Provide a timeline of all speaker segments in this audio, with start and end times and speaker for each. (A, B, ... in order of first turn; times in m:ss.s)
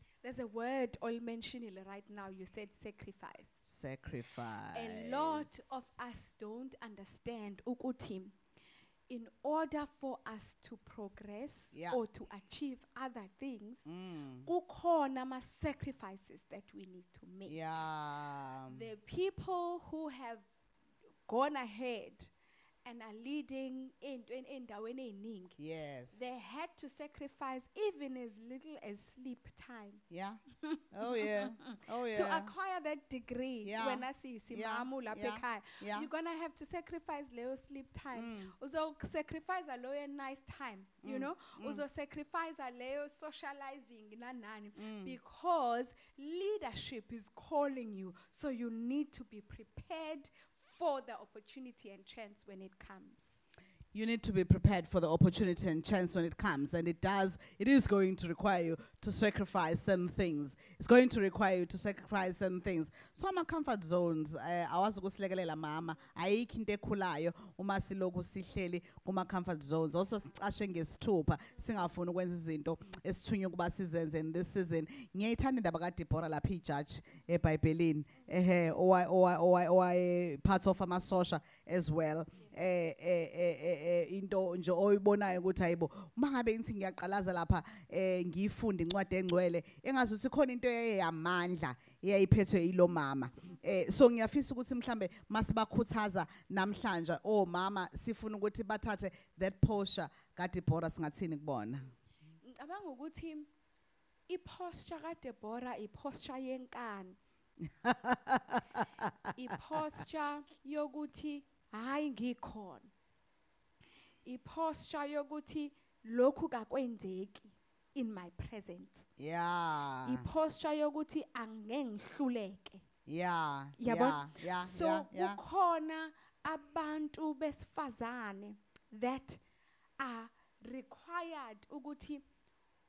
0:00.2-0:03.6 A
0:03.6-0:05.5 B
0:04.7-0:08.4 A
0:09.1-0:13.8 A
0:11.7-0:12.0 B
0:13.8-0:14.5 B
0:14.4-0:17.5 A
0:17.5-0:18.8 B
0:18.7-0:20.4 A
0:21.3-0:22.3 A
0:22.8-0:25.6 A
0:25.6-0:26.4 B
0:26.1-0:30.0 A
0:30.1-0:30.4 B
0:30.7-0:53.4 A
0:30.9-0:32.5 B
0:33.6-0:36.1 B
0:38.1-0:38.5 B
0:41.0-0:41.8 B
0:44.8-0:45.1 B
0:53.9-1:41.9 B
1:42.4-1:43.5 A
1:44.3-1:47.2 A
1:47.7-1:49.8 B
1:49.4-1:52.9 A
1:54.2-1:59.1 A
1:59.2-2:00.2 B
2:00.0-2:02.8 A
2:03.1-2:05.4 B
2:03.8-2:09.4 A
2:10.0-2:12.2 A